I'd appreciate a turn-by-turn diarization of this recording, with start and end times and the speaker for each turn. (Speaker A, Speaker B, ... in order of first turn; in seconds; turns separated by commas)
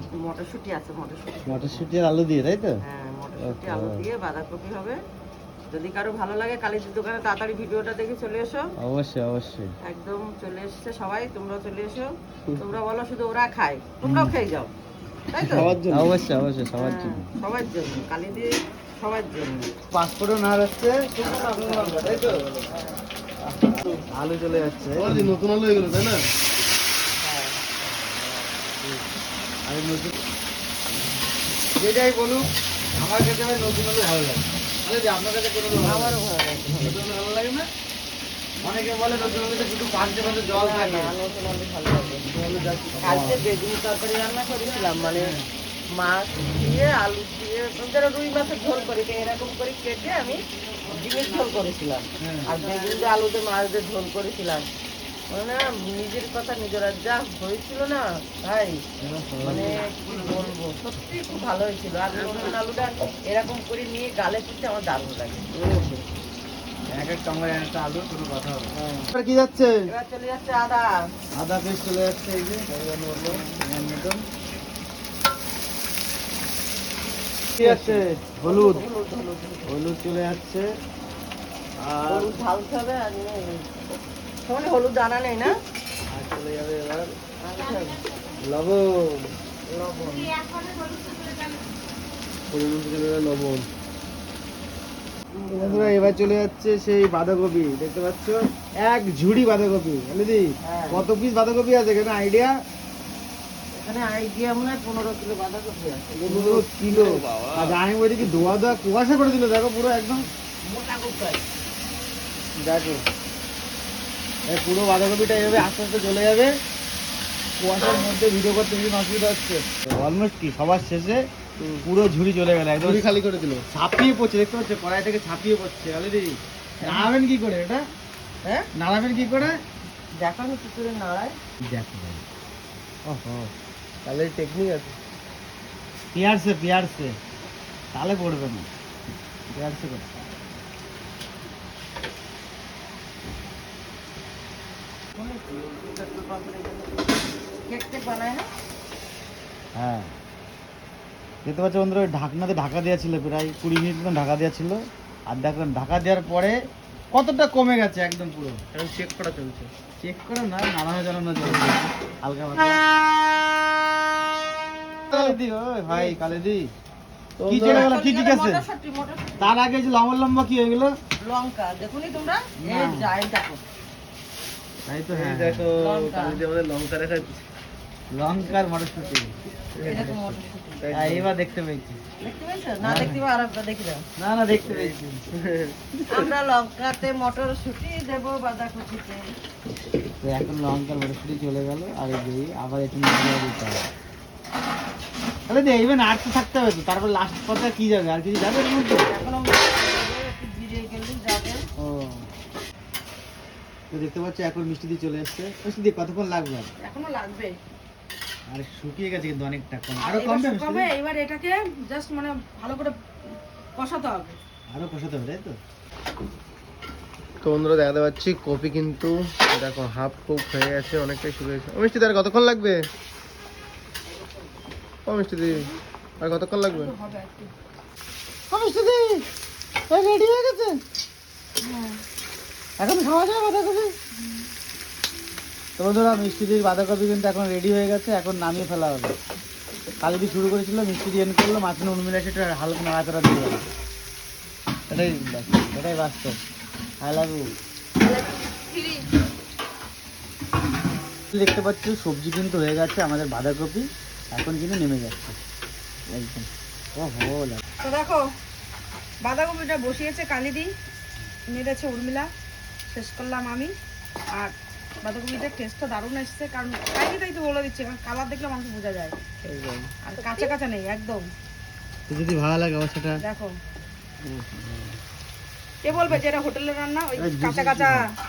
Speaker A: 0.2-1.9, Speaker B: 1.5-2.8, Speaker A: 2.8-5.0, Speaker B: 3.4-4.1, Speaker A: 5.7-8.7, Speaker B: 8.8-9.7, Speaker A: 9.8-14.7, Speaker B: 14.0-14.4, Speaker A: 15.3-15.7, Speaker B: 15.4-17.3, Speaker C: 15.4-16.2, Speaker A: 16.8-19.7, Speaker B: 19.9-22.4, Speaker A: 21.1-22.9, Speaker B: 23.4-25.3, Speaker C: 25.0-26.2, Speaker A: 27.2-27.6, Speaker B: 27.9-29.0, Speaker B: 29.7-30.1, Speaker B: 31.8-36.1, Speaker A: 35.8-37.0, Speaker B: 36.7-37.7, Speaker B: 38.6-41.1, Speaker A: 40.5-42.3, Speaker B: 42.4-43.4, Speaker C: 42.4-42.8, Speaker A: 43.0-45.4, Speaker B: 45.1-45.5, Speaker A: 45.9-54.7, Speaker B: 52.2-52.5, Speaker A: 55.3-58.8, Speaker B: 59.0-60.1, Speaker A: 59.4-65.5, Speaker C: 65.5-66.0, Speaker B: 66.9-69.8, Speaker A: 69.9-71.0, Speaker B: 71.3-74.2, Speaker C: 72.7-73.4, Speaker B: 77.6-78.8, Speaker C: 77.6-77.9, Speaker A: 77.6-79.7, Speaker B: 79.7-80.7, Speaker B: 81.8-82.3, Speaker A: 82.1-83.7, Speaker A: 84.4-85.5, Speaker C: 86.1-87.1, Speaker A: 87.4-88.0, Speaker C: 88.4-89.2, Speaker A: 89.7-90.3, Speaker D: 90.6-91.4, Speaker C: 92.5-93.7, Speaker A: 95.3-96.1, Speaker B: 95.5-102.5, Speaker A: 100.7-101.0, Speaker A: 103.7-106.3, Speaker C: 106.2-107.8, Speaker B: 106.2-110.3, Speaker A: 110.6-111.4, Speaker B: 112.6-113.0, Speaker B: 114.5-116.5, Speaker B: 117.6-121.2, Speaker C: 121.6-121.9, Speaker B: 121.8-123.1, Speaker C: 122.8-123.6, Speaker B: 123.7-127.8, Speaker A: 126.8-127.1, Speaker B: 128.8-129.6, Speaker A: 130.2-131.4, Speaker B: 131.7-132.2, Speaker B: 133.1-133.4, Speaker C: 134.0-134.9, Speaker B: 136.1-137.1, Speaker B: 137.9-138.7, Speaker B: 139.5-140.2, Speaker A: 145.2-147.0, Speaker A: 147.7-148.5, Speaker B: 149.8-150.1, Speaker B: 151.4-154.8, Speaker B: 155.3-156.5, Speaker B: 157.1-158.6, Speaker C: 158.7-159.7, Speaker B: 160.0-162.8, Speaker C: 165.1-165.4, Speaker B: 165.1-166.7, Speaker C: 167.4-167.9, Speaker B: 167.5-168.6, Speaker A: 167.6-169.5, Speaker B: 169.4-170.9, Speaker A: 171.2-173.6, Speaker B: 172.6-173.1, Speaker B: 174.9-175.7, Speaker C: 175.1-177.4, Speaker A: 175.8-176.4, Speaker B: 178.1-179.3, Speaker C: 179.8-180.1, Speaker A: 179.8-180.9, Speaker B: 179.8-180.4, Speaker C: 180.8-181.3, Speaker B: 180.9-182.0, Speaker A: 182.2-184.0, Speaker B: 182.8-183.2, Speaker B: 184.2-185.2, Speaker C: 184.7-185.8, Speaker A: 186.1-189.3, Speaker B: 190.2-193.9, Speaker B: 195.5-199.1, Speaker A: 199.1-201.7, Speaker B: 201.8-202.2, Speaker B: 203.9-206.7, Speaker D: 206.8-207.6, Speaker B: 208.5-210.9, Speaker D: 210.0-212.9, Speaker D: 213.8-214.4, Speaker B: 214.7-215.6, Speaker C: 217.4-222.9, Speaker C: 225.1-225.7, Speaker C: 226.2-227.0, Speaker D: 226.7-227.5, Speaker B: 228.5-229.2, Speaker B: 229.9-230.8, Speaker D: 231.6-232.0, Speaker B: 232.8-233.9, Speaker B: 235.8-239.2, Speaker B: 240.0-243.6, Speaker C: 244.9-245.6, Speaker B: 245.5-246.4, Speaker B: 247.0-247.4, Speaker B: 251.3-255.4, Speaker B: 256.1-257.6, Speaker D: 257.8-258.3, Speaker D: 259.2-260.7, Speaker D: 261.5-262.3, Speaker D: 262.9-263.7, Speaker D: 264.3-269.2, Speaker C: 269.4-269.9, Speaker D: 270.0-271.3, Speaker A: 270.1-270.6, Speaker B: 272.1-273.2, Speaker D: 273.2-273.5, Speaker C: 274.2-274.8, Speaker D: 275.8-278.1, Speaker B: 275.9-276.2, Speaker B: 277.2-278.0